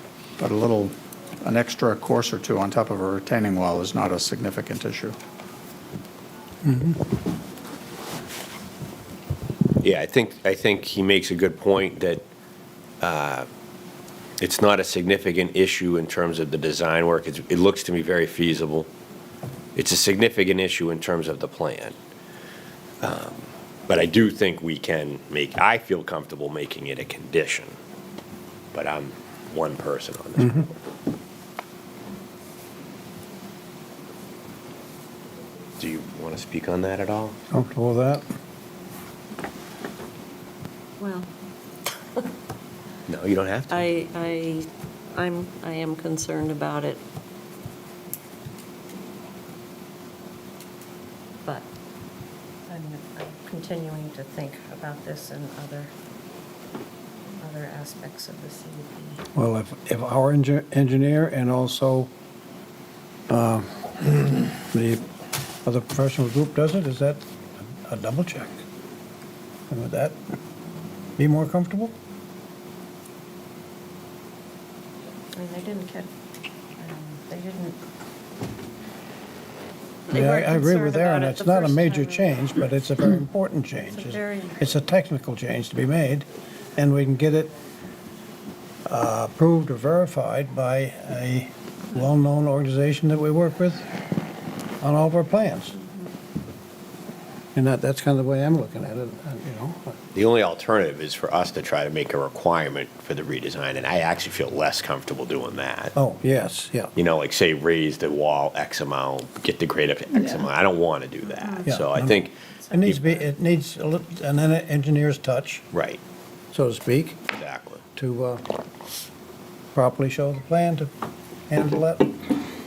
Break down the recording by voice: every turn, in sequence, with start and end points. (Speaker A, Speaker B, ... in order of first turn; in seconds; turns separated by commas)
Speaker A: 0.4-5.2, Speaker B: 6.6-7.0, Speaker C: 9.8-12.2, Speaker C: 13.0-13.5, Speaker C: 14.4-18.9, Speaker C: 19.7-21.9, Speaker C: 23.0-27.8, Speaker C: 28.7-30.7, Speaker B: 30.4-30.7, Speaker C: 35.8-37.4, Speaker B: 37.5-38.2, Speaker D: 41.0-41.3, Speaker C: 43.1-43.9, Speaker D: 43.7-47.0, Speaker D: 52.7-55.9, Speaker D: 57.4-59.2, Speaker B: 59.3-62.1, Speaker B: 63.3-65.0, Speaker B: 65.6-68.6, Speaker B: 69.7-70.2, Speaker B: 71.2-71.9, Speaker D: 75.3-76.1, Speaker D: 76.8-77.8, Speaker D: 80.1-82.5, Speaker B: 80.1-87.5, Speaker D: 83.8-84.7, Speaker B: 88.8-93.9, Speaker B: 94.8-95.7, Speaker B: 97.5-100.0, Speaker C: 100.1-105.9, Speaker B: 105.9-106.9, Speaker C: 107.0-113.0, Speaker B: 111.7-115.6, Speaker C: 115.7-116.0, Speaker B: 116.5-117.2, Speaker C: 117.3-117.8, Speaker B: 118.0-118.4, Speaker B: 119.7-120.9, Speaker B: 121.5-122.2